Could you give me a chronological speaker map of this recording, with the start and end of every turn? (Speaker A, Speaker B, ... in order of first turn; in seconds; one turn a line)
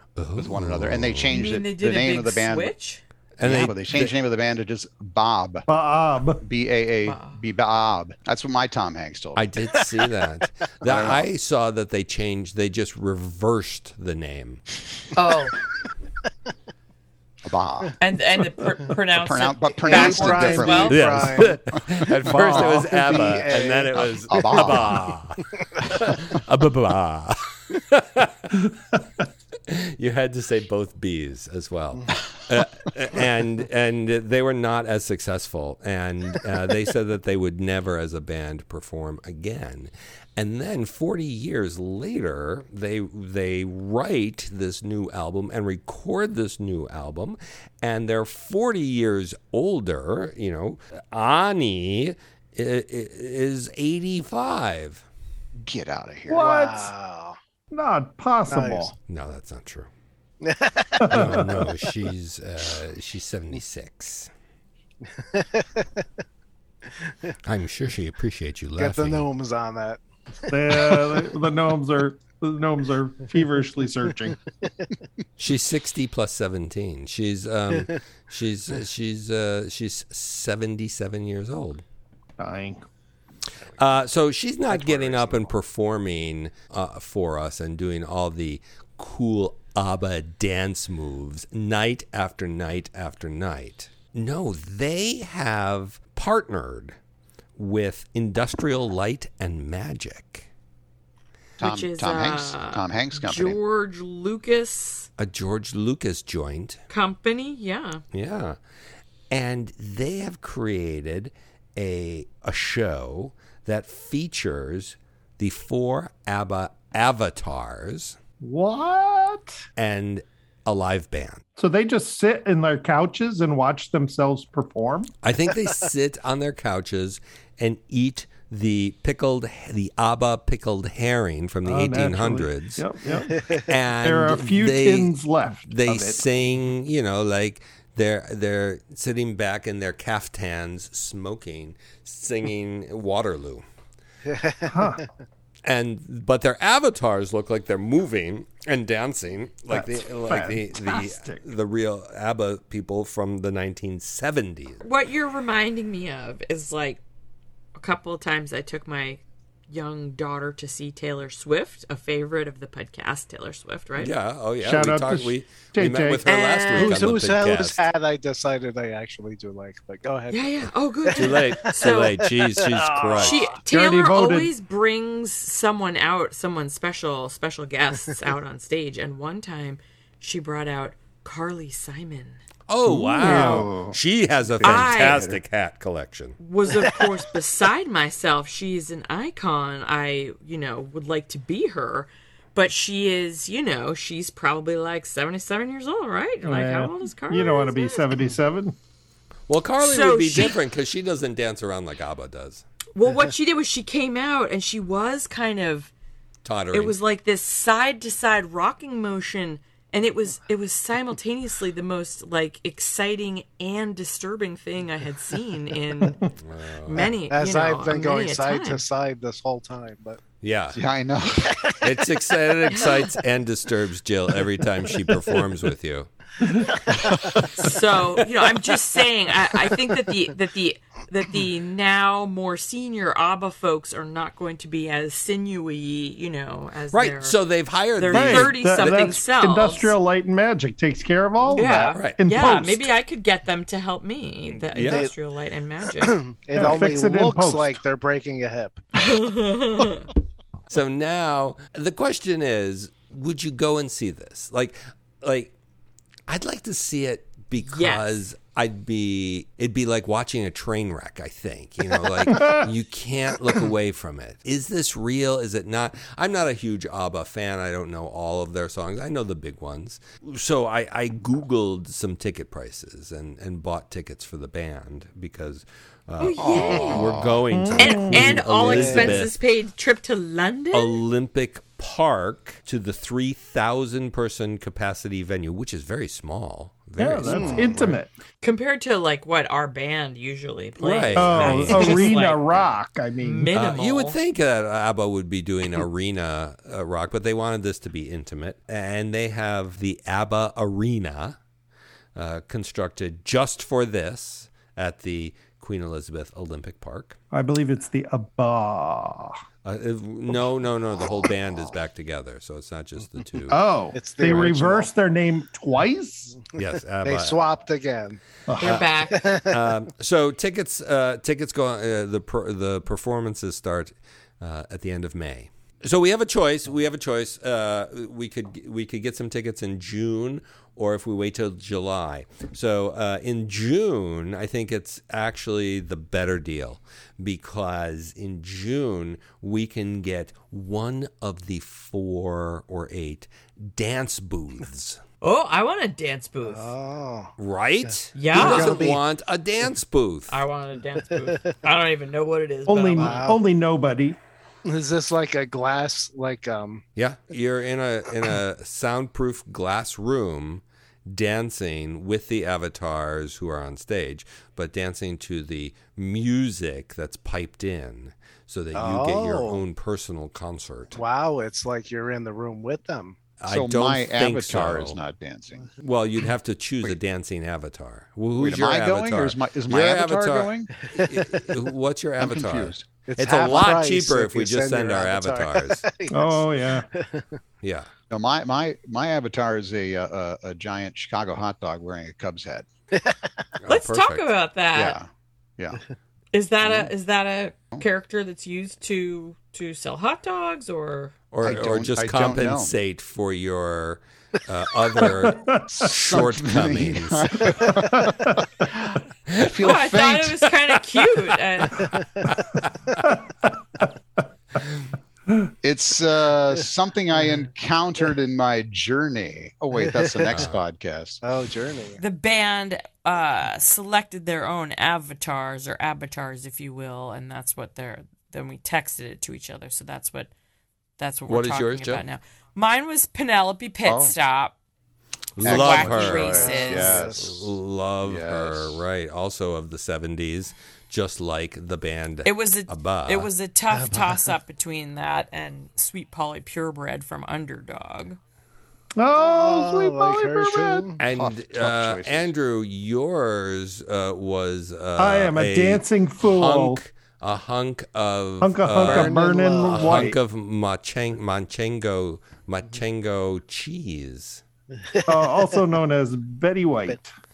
Speaker A: 0.2-1.4
Speaker B: 0.4-2.7
Speaker C: 1.3-3.0
Speaker A: 3.4-4.1
Speaker B: 3.4-5.7
Speaker D: 5.7-6.4
Speaker B: 6.4-9.5
Speaker C: 7.0-7.4
Speaker A: 9.4-14.6
Speaker B: 10.8-11.3
Speaker C: 15.2-15.6
Speaker B: 17.4-18.0
Speaker C: 18.0-21.2
Speaker B: 19.1-23.2
Speaker E: 19.9-21.6
Speaker A: 20.9-28.7
Speaker E: 22.2-24.9
Speaker B: 24.0-25.1
Speaker A: 29.7-55.0
Speaker B: 55.6-56.5
Speaker D: 56.3-56.9
Speaker E: 56.3-57.4
Speaker D: 57.7-58.9
Speaker E: 58.5-58.9
Speaker A: 59.1-59.9
Speaker E: 60.4-61.8
Speaker D: 61.0-61.7
Speaker A: 61.1-64.3
Speaker E: 65.1-66.1
Speaker E: 66.9-67.3
Speaker A: 67.4-69.2
Speaker E: 68.8-71.3
Speaker D: 70.5-74.4
Speaker A: 75.4-81.8
Speaker D: 82.4-82.8
Speaker A: 83.8-97.0
Speaker A: 97.6-100.5
Speaker C: 101.6-105.1
Speaker B: 101.6-103.6
Speaker A: 105.2-106.8
Speaker C: 106.9-108.0
Speaker A: 108.1-108.6
Speaker A: 109.3-118.2
Speaker D: 118.4-119.7
Speaker A: 119.8-121.4
Speaker D: 121.6-125.1
Speaker A: 125.2-132.8
Speaker D: 131.6-133.5
Speaker A: 133.6-143.6
Speaker D: 134.0-136.2
Speaker E: 144.2-145.1
Speaker D: 144.7-145.0
Speaker A: 145.6-154.8
Speaker D: 149.7-151.5
Speaker C: 154.8-157.0
Speaker C: 157.8-164.1
Speaker A: 163.9-167.8
Speaker D: 164.6-166.3
Speaker C: 166.2-167.1
Speaker E: 166.7-173.5
Speaker C: 170.3-172.2
Speaker A: 171.2-173.6
Speaker D: 172.9-174.5
Speaker C: 173.2-182.4
Speaker A: 182.7-186.4
Speaker D: 182.9-183.9
Speaker C: 183.2-183.6
Speaker C: 184.6-185.2
Speaker B: 184.6-185.4
Speaker C: 186.4-198.2
Speaker D: 196.4-198.8
Speaker A: 199.5-202.6
Speaker C: 199.8-200.6
Speaker C: 202.9-205.9
Speaker A: 206.4-206.9
Speaker C: 206.7-216.3
Speaker A: 216.4-217.1
Speaker C: 216.8-218.8
Speaker E: 217.3-220.2
Speaker A: 220.4-220.8
Speaker B: 220.7-221.7
Speaker A: 221.8-226.1
Speaker C: 222.7-223.1
Speaker E: 226.9-227.4
Speaker C: 227.5-237.4
Speaker A: 236.9-239.0
Speaker C: 237.9-239.9
Speaker D: 238.1-242.9
Speaker C: 241.5-246.2
Speaker A: 241.9-242.2
Speaker A: 244.7-245.1
Speaker E: 244.9-245.1
Speaker E: 245.9-248.9
Speaker D: 246.6-247.8
Speaker C: 248.9-250.1
Speaker A: 250.7-255.5
Speaker A: 256.3-279.3
Speaker C: 257.6-258.1
Speaker D: 262.3-262.7
Speaker C: 276.2-277.2
Speaker B: 276.4-277.4
Speaker E: 276.7-276.9
Speaker D: 277.5-278.4
Speaker C: 277.8-281.0
Speaker E: 278.6-279.2
Speaker A: 280.7-288.0
Speaker D: 287.0-288.1
Speaker E: 287.3-287.8
Speaker C: 288.4-294.2
Speaker A: 290.8-292.2
Speaker D: 291.1-293.5
Speaker A: 293.5-301.4
Speaker A: 302.1-307.2
Speaker D: 307.3-309.4
Speaker A: 309.6-313.6
Speaker D: 313.5-316.4
Speaker E: 313.9-314.9
Speaker A: 316.6-317.4
Speaker E: 317.0-318.2
Speaker D: 318.5-318.8
Speaker C: 318.6-319.3
Speaker E: 319.2-319.5
Speaker A: 319.4-345.0
Speaker C: 345.2-346.8
Speaker E: 346.4-347.3
Speaker A: 347.4-350.4
Speaker C: 348.1-348.9
Speaker E: 348.3-349.0
Speaker C: 350.3-353.3
Speaker D: 352.7-354.2
Speaker E: 352.9-353.4
Speaker E: 354.6-356.8
Speaker A: 356.9-371.0
Speaker E: 368.8-369.6
Speaker E: 370.9-373.2
Speaker A: 373.4-375.0
Speaker B: 373.5-375.7
Speaker A: 375.8-385.8
Speaker B: 378.4-380.7
Speaker E: 380.9-381.3
Speaker B: 382.2-382.9
Speaker E: 383.1-387.4
Speaker D: 386.1-386.9
Speaker A: 387.6-387.9
Speaker B: 388.1-392.7
Speaker E: 392.9-393.3
Speaker A: 393.6-394.3
Speaker C: 393.7-395.0
Speaker B: 394.7-395.8
Speaker C: 396.3-401.2
Speaker B: 396.6-396.9
Speaker A: 401.3-407.7
Speaker B: 401.4-402.7
Speaker D: 405.0-405.7
Speaker B: 405.7-410.4
Speaker D: 407.9-408.3
Speaker C: 409.6-411.9
Speaker E: 411.8-412.4
Speaker D: 413.0-413.8
Speaker B: 415.6-421.2
Speaker E: 420.0-420.3
Speaker A: 420.3-420.6
Speaker E: 421.2-422.0
Speaker C: 422.0-430.3
Speaker C: 431.0-434.5
Speaker A: 431.3-432.0
Speaker B: 433.8-434.2
Speaker A: 435.4-443.3
Speaker B: 435.4-437.4
Speaker C: 435.4-437.0
Speaker E: 435.8-437.4
Speaker B: 438.0-438.8
Speaker C: 442.2-448.2
Speaker D: 449.0-450.9
Speaker E: 449.2-451.0
Speaker A: 451.0-464.4
Speaker B: 451.0-452.3
Speaker D: 455.0-456.8
Speaker D: 458.4-460.2
Speaker E: 458.8-460.1
Speaker E: 464.8-465.6
Speaker D: 465.1-467.1